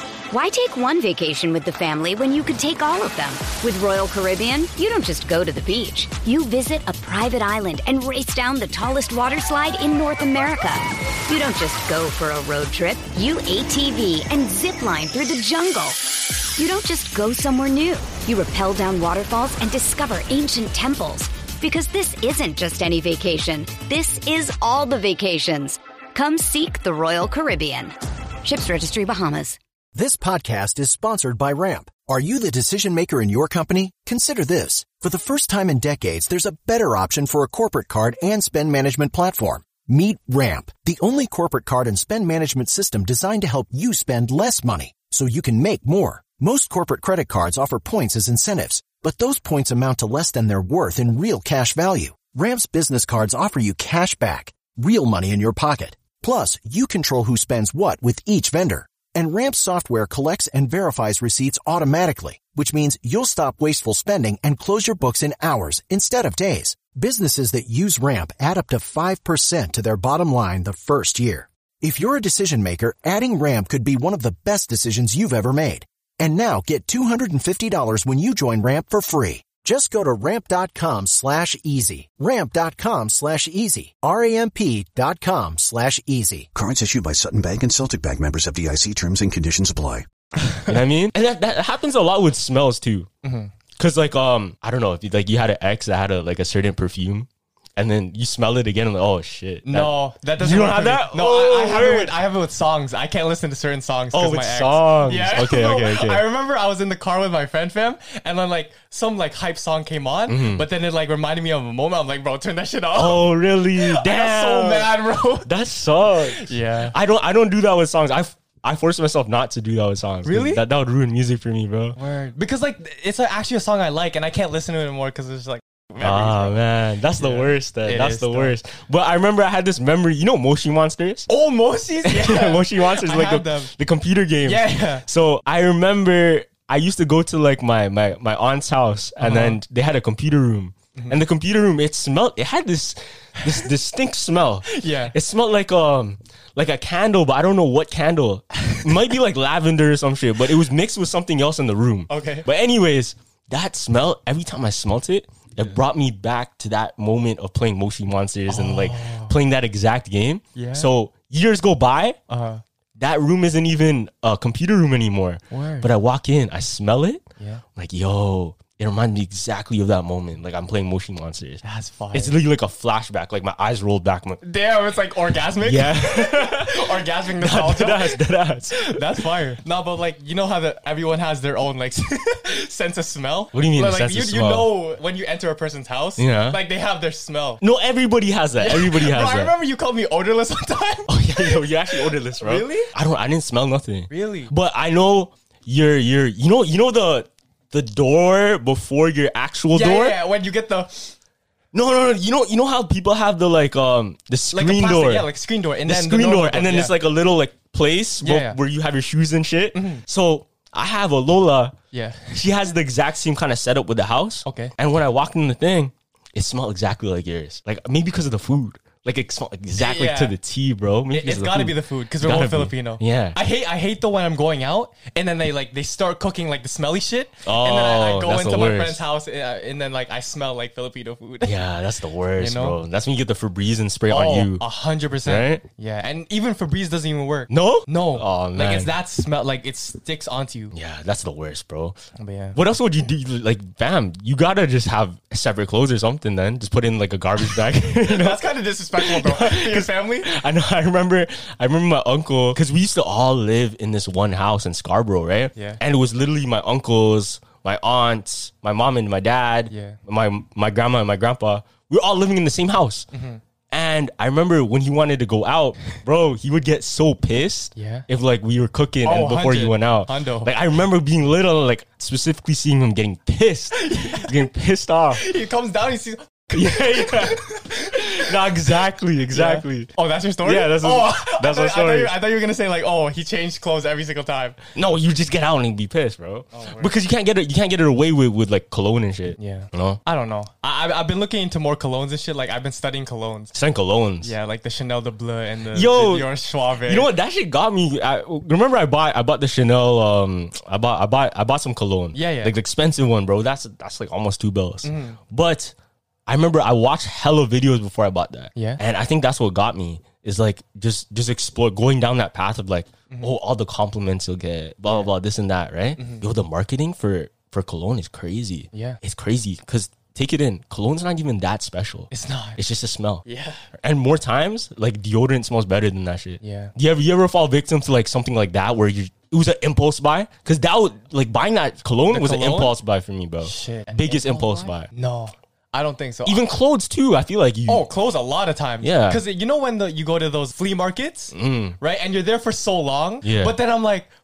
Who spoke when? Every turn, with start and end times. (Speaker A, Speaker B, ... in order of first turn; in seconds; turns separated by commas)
Speaker A: 0.3-29.6, Speaker B: 29.9-86.5, Speaker C: 86.5-90.0, Speaker D: 90.7-93.1, Speaker E: 93.2-93.5, Speaker D: 93.8-102.2, Speaker E: 99.7-115.5, Speaker D: 104.1-106.2, Speaker D: 110.3-110.7, Speaker D: 112.9-122.0, Speaker E: 116.3-116.9, Speaker E: 120.2-120.6, Speaker E: 122.0-126.6, Speaker D: 126.0-131.3, Speaker E: 127.2-128.5, Speaker E: 131.3-133.7, Speaker D: 132.0-162.2, Speaker E: 134.4-135.0, Speaker E: 139.2-139.6, Speaker E: 144.7-145.1, Speaker E: 152.1-152.5, Speaker E: 158.5-159.3, Speaker E: 160.6-160.9, Speaker E: 162.3-162.6, Speaker D: 163.0-167.2, Speaker E: 165.5-165.9, Speaker D: 167.8-174.4, Speaker E: 171.6-172.3, Speaker E: 174.4-178.2, Speaker D: 175.6-179.0, Speaker E: 178.8-187.6, Speaker D: 183.5-184.7, Speaker D: 186.2-186.6, Speaker D: 187.6-189.5, Speaker E: 188.6-192.9, Speaker D: 191.1-200.2, Speaker E: 194.1-194.5, Speaker E: 199.7-201.1, Speaker D: 201.7-205.3, Speaker E: 204.5-206.9, Speaker D: 205.8-211.8, Speaker E: 208.2-208.6, Speaker E: 209.7-210.0, Speaker E: 211.9-212.4, Speaker D: 212.3-223.4, Speaker E: 214.4-214.7, Speaker E: 219.8-220.3, Speaker E: 221.1-231.6, Speaker D: 227.4-229.0, Speaker D: 231.4-234.6, Speaker E: 232.4-232.8, Speaker E: 234.1-240.7, Speaker D: 235.2-235.6, Speaker D: 237.5-238.9, Speaker D: 240.7-242.0, Speaker E: 242.2-242.6, Speaker D: 242.6-248.4, Speaker E: 248.0-250.3, Speaker D: 249.0-263.1, Speaker E: 255.5-255.8, Speaker E: 259.7-260.0, Speaker E: 263.1-263.4, Speaker D: 263.7-275.2, Speaker E: 267.8-268.1, Speaker E: 269.0-270.5, Speaker E: 273.8-274.3, Speaker E: 275.1-278.3, Speaker D: 276.5-279.9, Speaker E: 279.3-284.6, Speaker D: 280.4-282.1, Speaker D: 284.7-290.0, Speaker E: 286.5-286.9, Speaker E: 289.4-293.5, Speaker D: 293.5-294.3, Speaker E: 294.2-297.1, Speaker D: 295.7-296.3, Speaker D: 296.9-305.7, Speaker E: 302.1-302.5, Speaker E: 304.8-305.2, Speaker D: 306.3-334.9, Speaker E: 308.6-308.8, Speaker E: 316.0-316.2, Speaker E: 318.7-319.0, Speaker E: 322.1-322.6, Speaker E: 323.2-323.6, Speaker E: 326.4-326.7, Speaker E: 332.1-332.7, Speaker E: 333.4-336.4, Speaker D: 336.2-337.9, Speaker E: 337.7-344.1, Speaker D: 338.8-339.2, Speaker D: 341.3-341.8, Speaker D: 343.2-343.6